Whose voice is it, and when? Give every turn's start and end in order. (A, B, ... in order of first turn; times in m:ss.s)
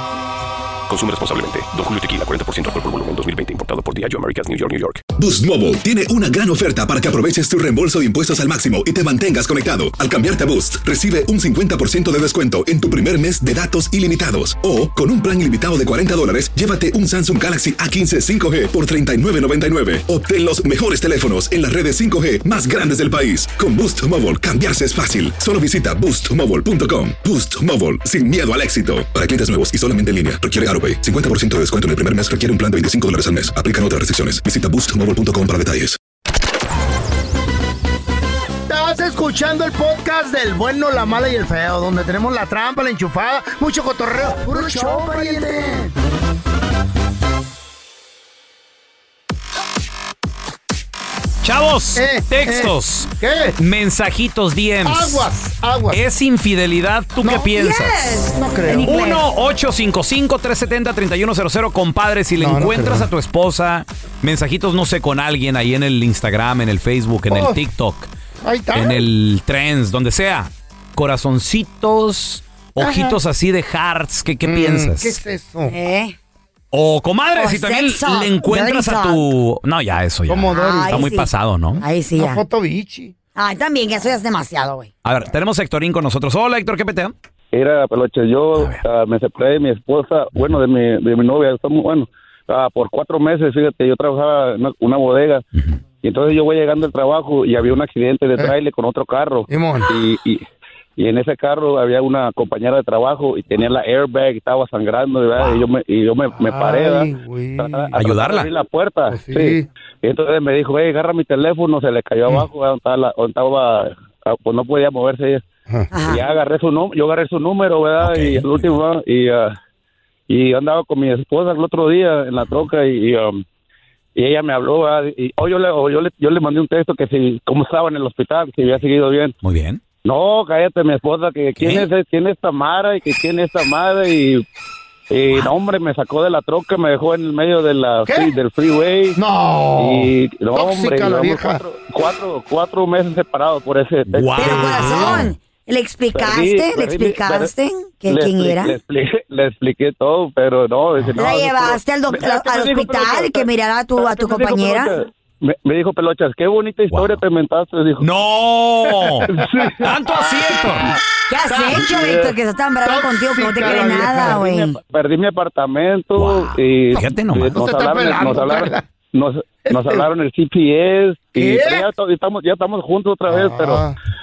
0:00.9-0:05.0 A
0:05.2-0:36.0 B
0:38.7-0:45.9 C
0:44.5-0:45.5 D
0:51.4-0:55.3 E
0:52.0-0:53.6 C
0:54.8-0:56.0 C
0:55.9-0:58.0 E
0:57.3-0:59.2 D
0:58.3-0:59.0 C
0:58.8-1:08.1 E
1:02.4-1:03.1 C
1:07.3-1:07.6 C
1:08.4-1:09.1 C
1:08.7-1:15.2 E
1:12.8-1:13.2 C
1:14.4-1:15.8 C
1:15.7-1:16.2 D
1:16.7-1:21.8 E
1:17.4-1:19.3 D
1:20.3-1:21.2 C
1:20.5-1:22.4 D
1:22.2-1:23.1 C
1:23.4-1:24.9 D
1:25.0-1:27.1 E
1:27.5-1:35.4 F
1:36.0-1:40.4 F
1:39.5-1:39.9 C
1:41.0-1:55.4 F
1:46.4-1:48.0 C
1:48.0-1:48.5 E
1:49.1-1:49.7 C
1:55.9-1:56.2 D
1:56.1-1:59.6 F
1:58.0-1:58.8 E
2:00.3-2:03.4 F
2:04.2-2:09.3 F
2:09.4-2:09.8 E
2:10.0-2:14.4 F
2:11.6-2:11.9 E
2:15.1-2:19.2 F
2:18.1-2:18.3 C
2:19.2-2:21.6 C
2:19.8-2:25.0 F
2:24.1-2:25.3 E
2:24.4-2:28.8 D
2:26.2-2:27.5 F
2:28.1-2:38.0 F
2:31.2-2:35.0 D
2:36.9-2:37.2 E
2:38.0-2:40.9 E
2:39.3-2:39.9 F
2:41.3-2:44.8 D
2:41.5-2:41.9 C
2:41.7-2:42.3 F
2:42.8-2:44.5 C
2:43.6-2:53.8 F
2:46.2-2:47.6 E
2:47.5-2:48.8 C
2:49.7-2:50.1 C
2:51.4-2:51.9 C
2:53.3-2:54.0 C